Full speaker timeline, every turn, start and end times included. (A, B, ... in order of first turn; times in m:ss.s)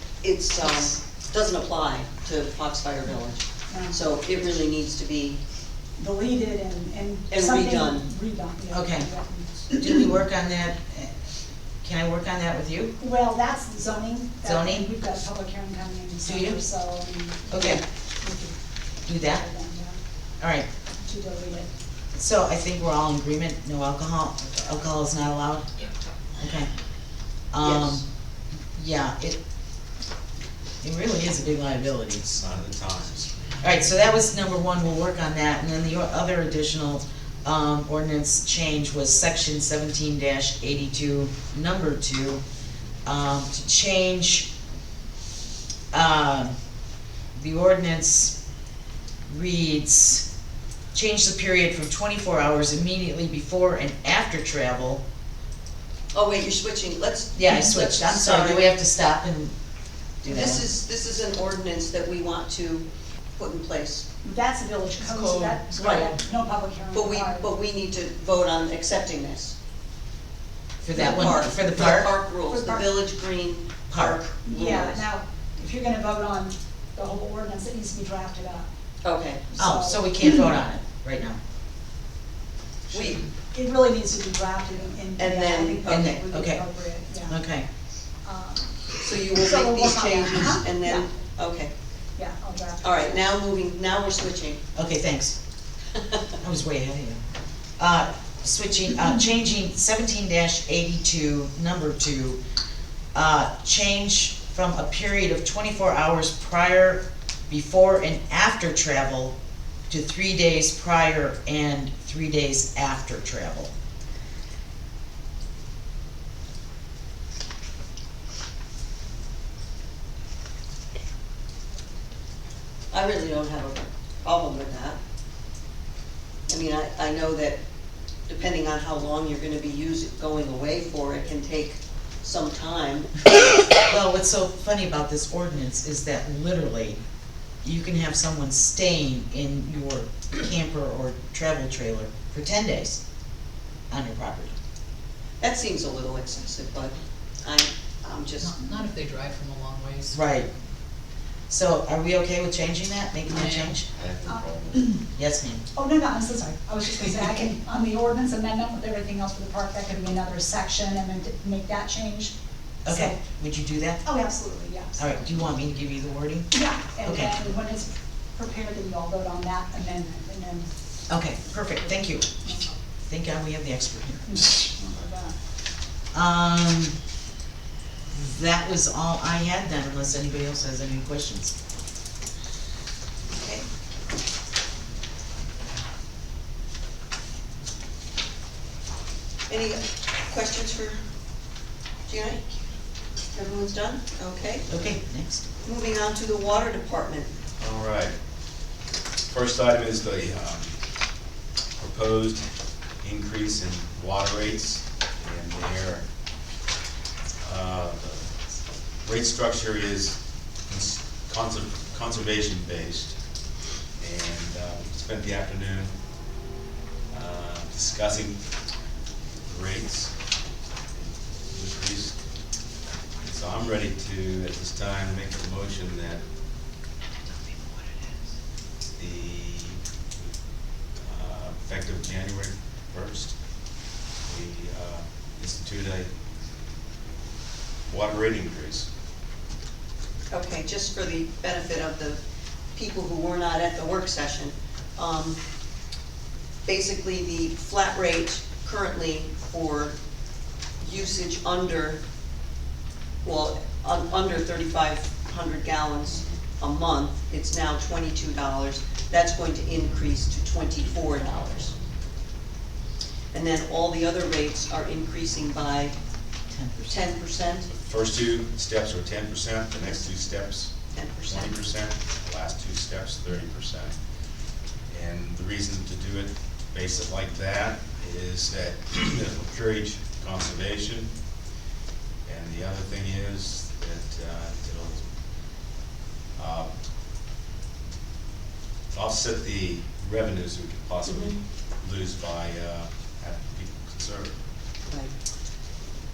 0:00.2-0:05.4 A
0:03.7-0:03.9 B
0:06.0-0:09.8 B
0:07.3-0:08.1 A
0:08.7-0:09.1 C
0:09.7-0:11.1 C
0:11.8-0:13.0 C
0:13.0-0:18.6 B
0:14.4-0:14.9 C
0:16.2-0:16.6 C
0:17.5-0:17.8 C
0:19.1-0:19.5 C
0:19.2-0:20.0 B
0:20.4-0:20.7 C
0:21.0-0:21.7 B
0:22.1-0:25.7 C
0:26.4-0:26.7 C
0:27.5-0:28.0 C
0:27.6-0:28.0 A
0:28.7-0:29.4 C
0:30.8-0:32.2 C
0:32.2-0:33.5 D
0:33.6-0:42.4 C
0:43.1-0:44.5 C
0:45.9-0:46.5 C
0:47.4-0:48.4 C
0:49.3-0:50.3 C
0:50.9-0:55.0 C
0:56.1-0:58.7 A
0:57.3-0:59.6 C
1:00.2-1:00.6 C
1:00.2-1:04.1 A
1:04.2-1:07.4 B
1:05.0-1:06.1 E
1:05.7-1:06.1 A
1:06.9-1:09.6 A
1:10.8-1:12.1 C
1:10.9-1:15.0 A
1:10.9-1:11.3 B
1:12.5-1:12.9 B
1:13.9-1:14.2 C
1:14.4-1:18.7 B
1:19.0-1:19.5 A
1:19.5-1:20.4 B
1:19.6-1:21.4 C
1:22.9-1:23.3 A
1:23.5-1:27.4 B
1:25.2-1:26.2 A
1:25.9-1:26.6 C
1:27.3-1:27.7 C
1:28.2-1:31.1 B
1:29.0-1:31.7 A
1:32.2-1:33.0 B
1:32.8-1:34.6 A
1:34.8-1:35.4 C
1:36.4-1:37.2 C
1:37.8-1:42.4 C
1:43.1-1:49.4 C
1:49.9-1:53.7 C
2:02.9-2:05.0 A
2:06.5-2:07.6 A
2:08.3-2:13.2 A
2:13.8-2:17.0 C
2:17.6-2:23.0 C
2:23.9-2:24.5 C
2:25.4-2:28.6 A
2:28.4-2:30.2 E
2:30.1-2:30.5 C
2:31.5-2:33.9 C
2:33.3-2:33.8 E
2:33.9-2:35.0 D
2:34.3-2:35.0 B
2:35.1-2:35.6 C
2:35.8-2:42.3 B
2:42.9-2:43.2 B
2:42.9-2:44.0 C
2:44.0-2:45.2 B
2:45.0-2:47.5 C
2:46.5-2:50.7 B
2:51.1-2:52.3 C
2:52.4-2:52.8 B
2:53.1-2:54.2 C
2:54.3-2:55.4 B
2:56.1-2:57.0 C
2:58.1-3:01.6 C
3:03.3-3:03.7 A
3:09.5-3:11.0 A
3:12.1-3:12.5 A
3:13.3-3:14.7 A
3:14.7-3:15.4 C
3:15.6-3:17.3 A
3:17.6-3:18.1 D
3:19.3-3:20.7 D
3:21.8-3:22.5 D
3:23.0-3:26.0 D
3:27.4-3:28.3 D
3:29.0-3:33.2 D
3:34.0-3:35.9 D
3:37.1-3:38.4 D
3:39.5-3:40.1 D
3:41.0-3:42.2 D
3:43.2-3:46.2 D
3:49.0-3:49.8 D
3:51.0-3:53.4 D
3:54.2-3:56.1 D
3:57.9-3:58.9 D
4:00.3-4:02.2 A
4:02.8-4:05.4 A
4:06.7-4:10.0 A
4:10.8-4:12.0 A
4:13.2-4:21.7 A
4:23.3-4:26.0 A
4:26.5-4:27.0 C
4:26.9-4:27.7 A
4:27.7-4:30.7 D
4:30.9-4:31.5 A
4:31.3-4:34.0 D
4:34.9-4:41.1 D
4:42.3-4:45.0 D
4:46.4-4:46.7 D
4:48.9-4:54.4 D
4:51.0-4:51.4 A